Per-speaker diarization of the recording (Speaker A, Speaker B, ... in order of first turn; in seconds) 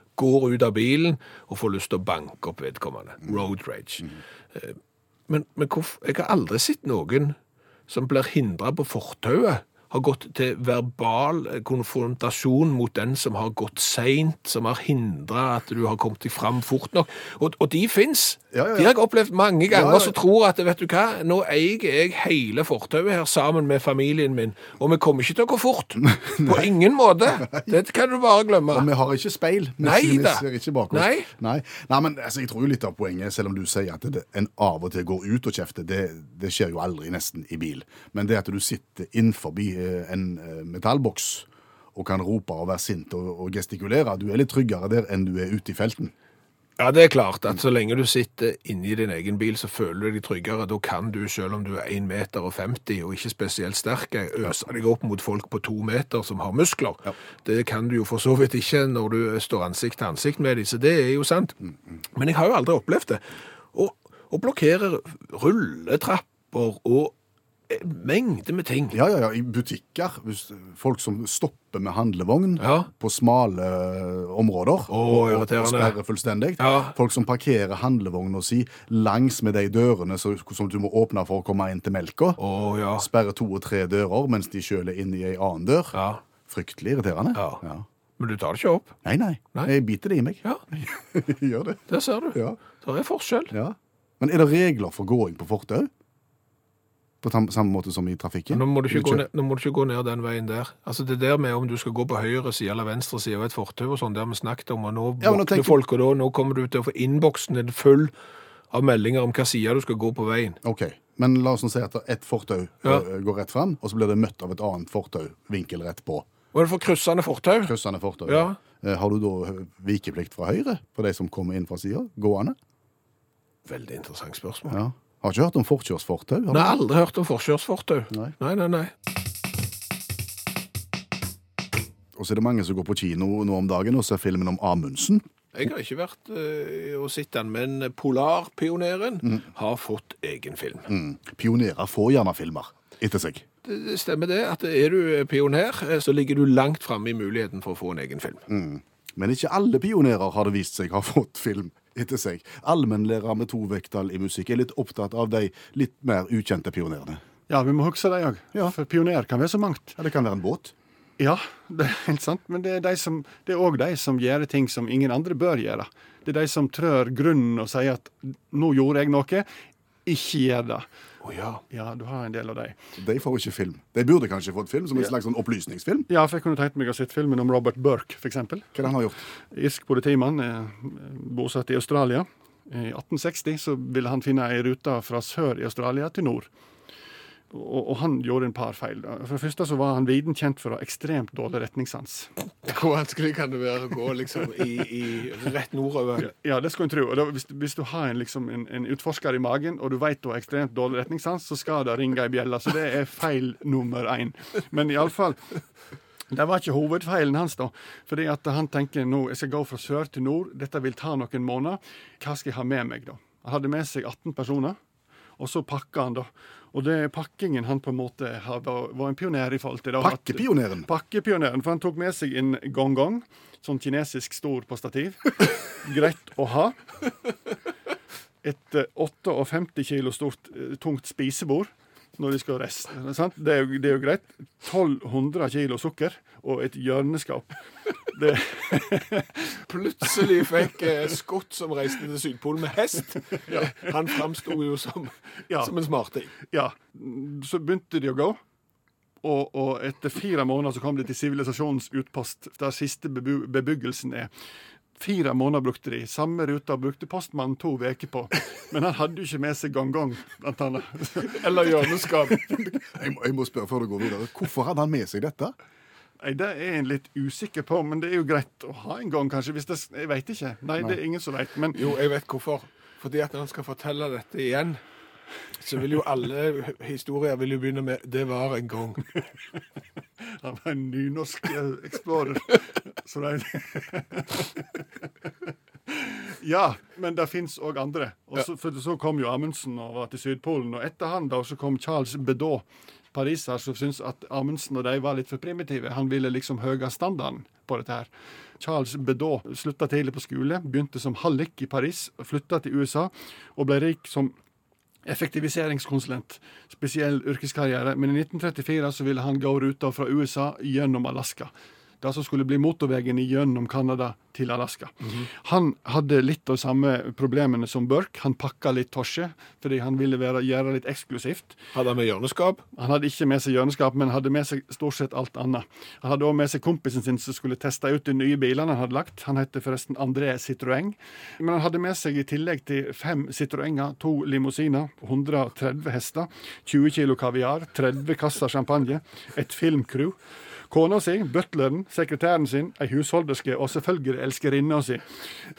Speaker A: 0.2-4.8, 5.3-7.3, 7.9-28.9, 29.8-31.3, 46.8-61.6, 62.1-67.1, 67.7-69.0, 72.6-72.9, 74.9-75.9, 76.6-76.9, 82.4-83.1, 85.9-86.2, 87.3-87.6, 88.2-89.0, 91.9-93.5, 98.5-108.1, 108.7-110.6, 116.5-117.7, 118.2-118.6, 123.7-124.8, 126.5-128.9, 135.5-140.9, 143.6-148.4, 171.2-171.6, 192.6-196.3, 239.7-246.3, 261.2-262.5, 271.7-274.8, 275.6-279.1, 321.7-322.6
Speaker B: 18.5-18.9, 19.7-20.1, 26.0-26.7, 27.4-27.7, 28.7-46.1, 68.9-82.4, 83.0-87.8, 89.0-91.8, 92.3-92.6, 93.5-95.9, 97.2-99.2, 105.2-105.8, 110.6-116.3, 117.6-122.5, 124.7-126.8, 132.2-135.2, 140.9-143.4, 148.5-157.2, 160.0-160.7, 173.0-176.1, 178.7-179.2, 220.0-220.9, 262.5-265.5
Speaker C: 157.5-159.9, 161.2-169.4, 170.0-170.8, 171.7-172.8, 176.1-178.7, 179.5-186.5, 187.5-192.3, 196.2-205.6, 206.3-214.8, 215.4-226.8, 228.4-237.5, 238.1-239.6, 246.4-248.4, 249.2-254.3, 255.0-261.8, 266.2-271.8, 280.2-284.8, 285.9-304.3, 305.0-321.6, 322.7-340.2, 340.7-345.0